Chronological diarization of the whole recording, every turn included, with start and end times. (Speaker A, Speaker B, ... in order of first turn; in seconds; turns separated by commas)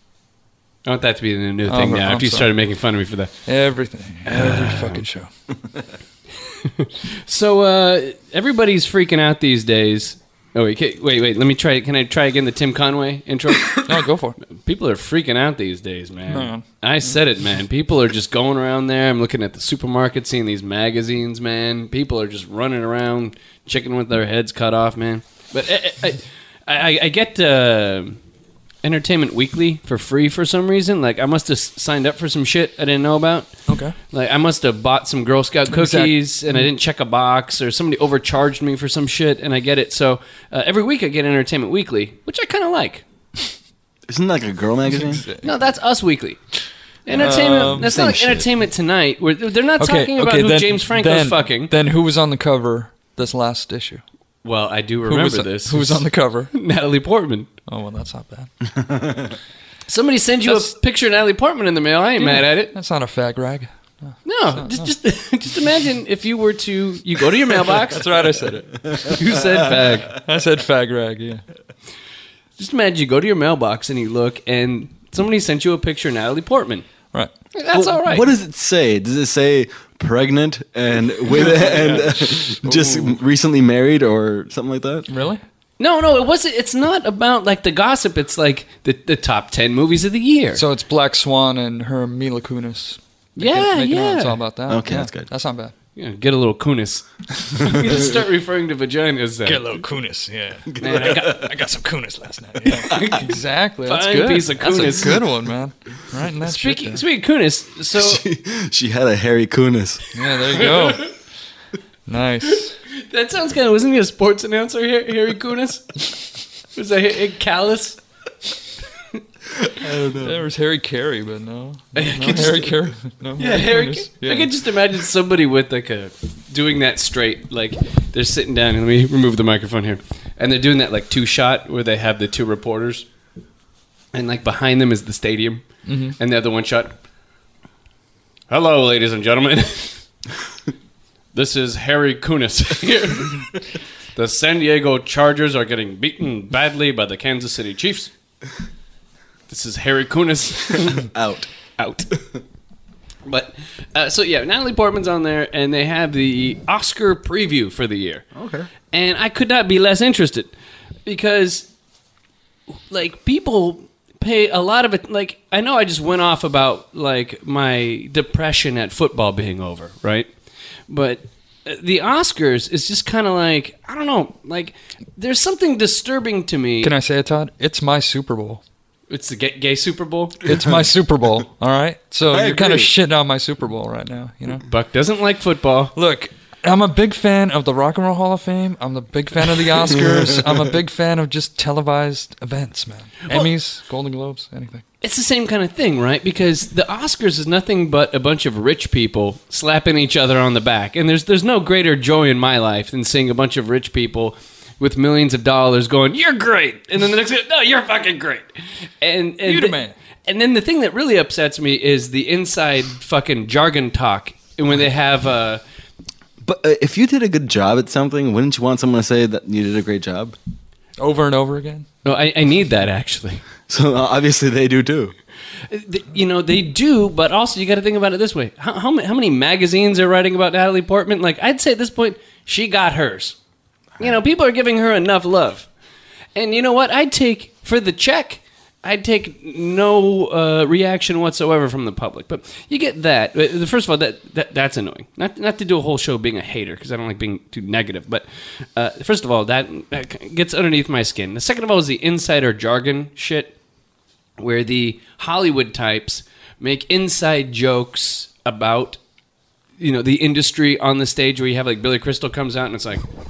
Speaker A: 0.9-3.3, Speaker B: 1.7-2.5, Speaker B: 3.5-5.3, Speaker A: 4.3-5.0, Speaker A: 6.6-13.9, Speaker B: 13.8-14.4, Speaker A: 14.5-28.2, Speaker B: 16.3-16.6, Speaker A: 28.8-33.5, Speaker B: 33.7-34.0, Speaker A: 34.1-43.0, Speaker B: 35.7-36.7, Speaker C: 44.1-45.2, Speaker B: 44.9-45.5, Speaker A: 45.4-46.4, Speaker A: 47.1-51.7, Speaker C: 47.1-48.5, Speaker B: 47.2-47.9, Speaker B: 49.8-54.0, Speaker A: 54.4-57.5, Speaker B: 55.1-56.5, Speaker B: 57.7-58.5, Speaker C: 58.8-59.4, Speaker A: 59.9-62.7, Speaker B: 60.5-60.7, Speaker B: 62.2-64.9, Speaker A: 64.2-68.1, Speaker B: 67.7-69.2, Speaker A: 69.1-70.1, Speaker B: 70.1-71.4, Speaker A: 72.6-76.8, Speaker A: 77.5-78.3, Speaker C: 77.7-85.1, Speaker B: 81.5-83.2, Speaker B: 85.1-85.4, Speaker A: 85.8-90.6, Speaker B: 90.5-95.7, Speaker A: 93.4-94.4, Speaker C: 94.7-95.3, Speaker A: 96.0-99.8, Speaker B: 99.5-107.0, Speaker C: 100.7-101.5, Speaker A: 100.8-101.5, Speaker A: 102.7-105.2, Speaker A: 106.4-108.2, Speaker C: 108.0-110.0, Speaker B: 110.1-111.1, Speaker A: 110.5-111.1, Speaker B: 112.1-112.8, Speaker A: 112.9-116.1, Speaker A: 116.7-118.0, Speaker C: 119.7-120.4, Speaker B: 120.2-124.5, Speaker A: 121.9-122.8, Speaker A: 123.4-133.1, Speaker A: 134.1-135.6, Speaker B: 135.9-136.2, Speaker A: 136.2-137.0, Speaker A: 138.5-140.0, Speaker A: 141.3-143.5, Speaker A: 144.2-148.1, Speaker A: 149.5-151.1, Speaker C: 151.0-151.5, Speaker A: 151.8-152.1, Speaker A: 153.3-158.3, Speaker C: 158.3-158.7, Speaker A: 158.9-160.5, Speaker A: 161.1-161.7, Speaker A: 162.9-170.3, Speaker A: 170.9-176.9, Speaker B: 176.8-178.6, Speaker A: 179.1-180.5, Speaker B: 180.4-184.7, Speaker C: 182.3-182.9, Speaker A: 184.7-185.9, Speaker B: 186.0-194.8, Speaker A: 195.0-208.5, Speaker A: 209.0-215.6, Speaker B: 209.4-209.9, Speaker C: 216.4-220.3, Speaker B: 221.0-221.9, Speaker A: 222.0-223.4, Speaker C: 223.7-225.1, Speaker A: 225.7-233.4, Speaker A: 234.0-235.7, Speaker A: 236.3-253.6, Speaker A: 254.4-259.0, Speaker A: 259.8-263.0